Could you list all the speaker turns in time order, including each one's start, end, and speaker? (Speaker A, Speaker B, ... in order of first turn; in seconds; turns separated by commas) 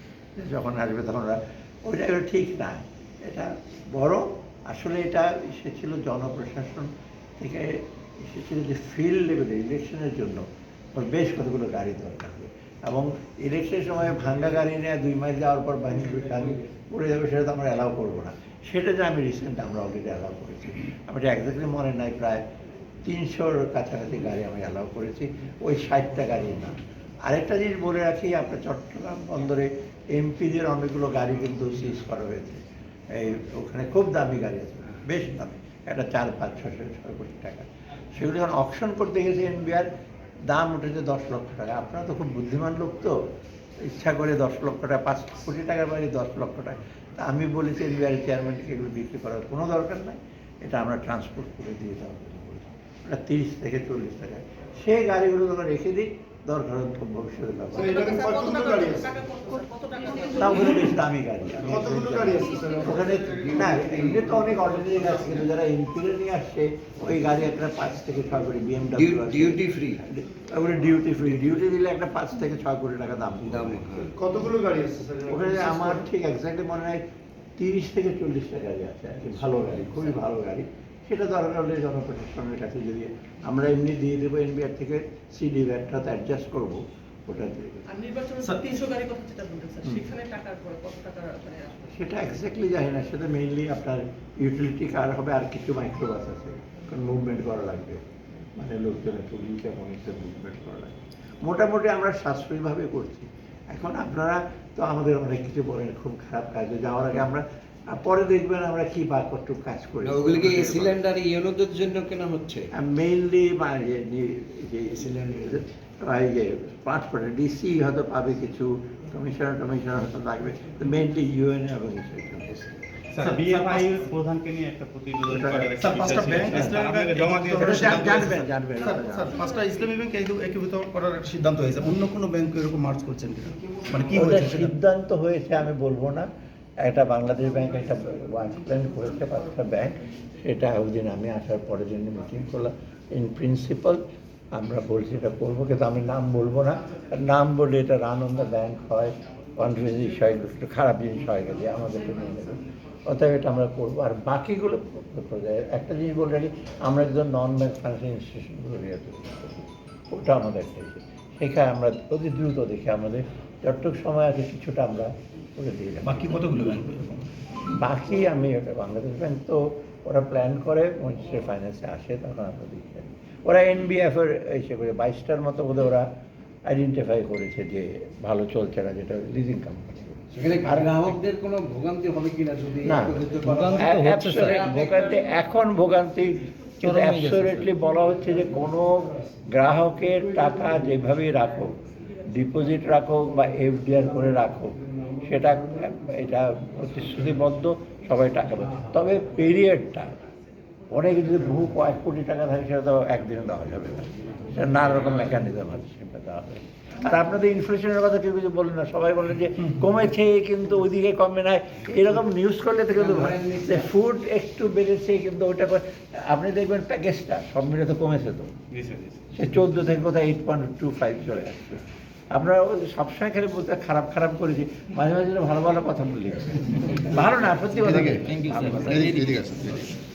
Speaker A: 0.3-22.4, Speaker A: 23.0-39.9, Speaker A: 40.5-43.2, Speaker A: 43.8-58.2, Speaker B: 57.7-61.0, Speaker C: 58.0-59.1, Speaker A: 60.3-73.8, Speaker C: 61.6-62.9, Speaker D: 62.6-64.5, Speaker D: 68.9-70.0, Speaker D: 73.4-74.3, Speaker C: 74.2-75.8, Speaker A: 75.2-77.0, Speaker A: 77.6-87.8, Speaker B: 87.9-91.9, Speaker A: 91.9-111.0, Speaker D: 110.0-112.7, Speaker A: 112.7-122.7, Speaker D: 114.9-115.6, Speaker E: 123.1-128.3, Speaker C: 123.2-123.9, Speaker A: 125.3-125.7, Speaker C: 125.8-134.7, Speaker A: 127.5-129.3, Speaker B: 129.0-129.8, Speaker A: 134.1-136.3, Speaker A: 136.8-144.0, Speaker A: 144.5-166.6, Speaker C: 166.1-167.3, Speaker A: 167.6-176.1, Speaker A: 176.7-181.1, Speaker D: 180.3-185.2, Speaker A: 182.8-200.1, Speaker D: 186.8-187.6, Speaker A: 200.9-218.5, Speaker D: 212.9-213.8, Speaker E: 218.7-219.2, Speaker A: 219.3-229.5, Speaker D: 228.0-229.8